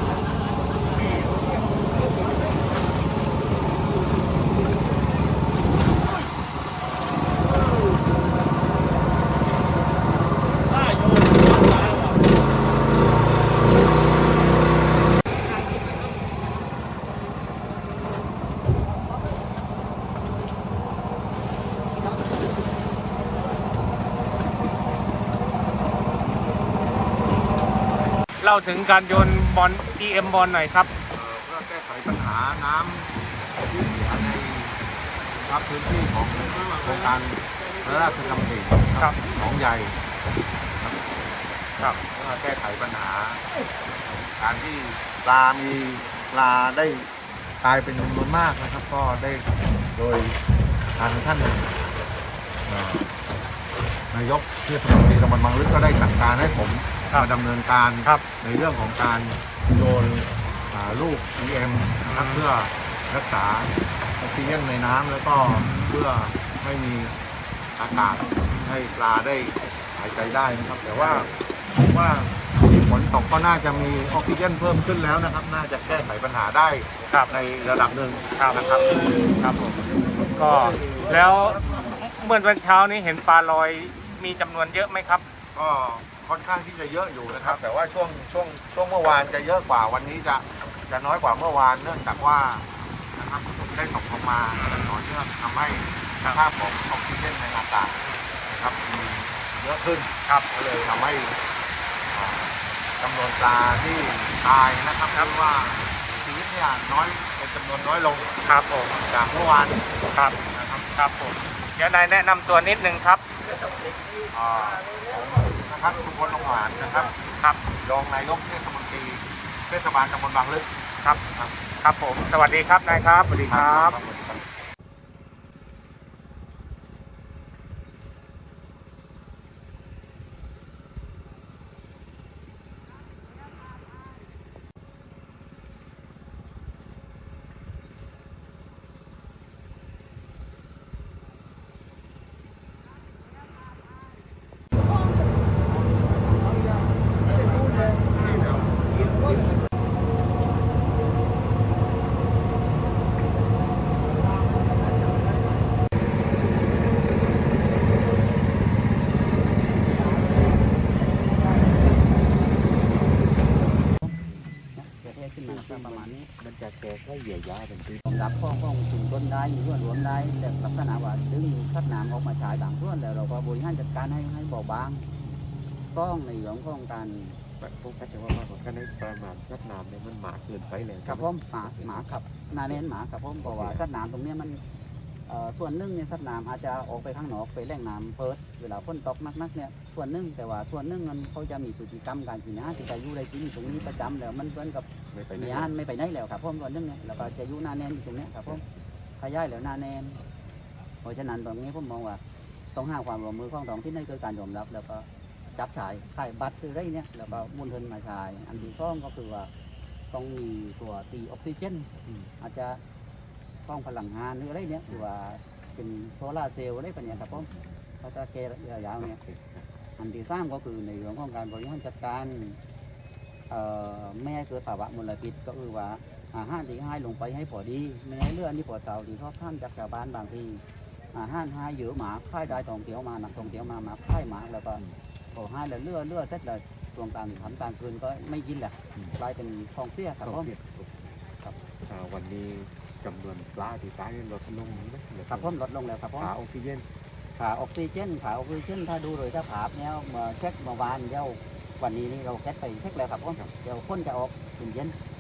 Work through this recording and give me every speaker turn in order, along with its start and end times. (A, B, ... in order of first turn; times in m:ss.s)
0:28.4-0:30.9 A
0:31.1-0:33.1 B
0:33.6-0:34.8 B
0:35.4-0:40.0 B
0:42.1-0:43.4 B
0:44.4-0:47.1 B
0:47.6-0:50.4 B
0:51.0-0:51.7 B
0:52.7-0:53.1 B
0:54.1-1:07.2 B
0:58.0-0:58.3 A
1:02.1-1:02.5 A
1:07.8-1:19.2 B
1:18.4-1:18.7 A
1:19.4-1:19.8 A
1:20.3-1:25.2 A
1:21.0-1:21.6 B
1:25.5-1:41.3 B
1:27.3-1:27.6 A
1:34.5-1:35.0 A
1:42.1-1:48.3 B
1:45.1-1:45.5 A
1:48.4-1:49.0 A
1:49.0-1:49.9 B
1:50.5-1:50.9 B
1:50.9-1:53.2 A
1:54.3-1:57.1 B
1:57.8-2:00.7 B
2:01.8-2:04.0 A
2:03.5-2:04.4 B
2:44.8-2:46.3 C
2:45.5-2:48.0 D
2:48.0-2:55.0 C
2:55.8-2:57.4 C
2:57.6-3:02.8 D
3:01.0-3:04.6 C
3:03.4-3:03.8 D
3:05.3-3:18.6 C
3:13.7-3:14.1 D
3:15.1-3:15.7 D
3:18.4-3:18.7 D
3:19.2-3:20.2 C
3:21.0-3:22.2 C
3:22.7-3:29.5 C
3:30.1-3:32.8 C
3:32.0-3:32.3 D
3:33.7-3:37.5 C
3:37.1-3:37.8 D
3:38.0-3:39.2 C
3:39.0-3:39.7 D
3:40.0-3:42.6 C
3:43.5-4:00.5 C
3:53.3-3:53.8 D
3:57.3-3:57.7 D
4:00.2-4:01.2 D
4:01.8-4:05.5 D
4:05.3-4:06.3 C
4:06.2-4:06.8 D
4:07.4-4:15.0 C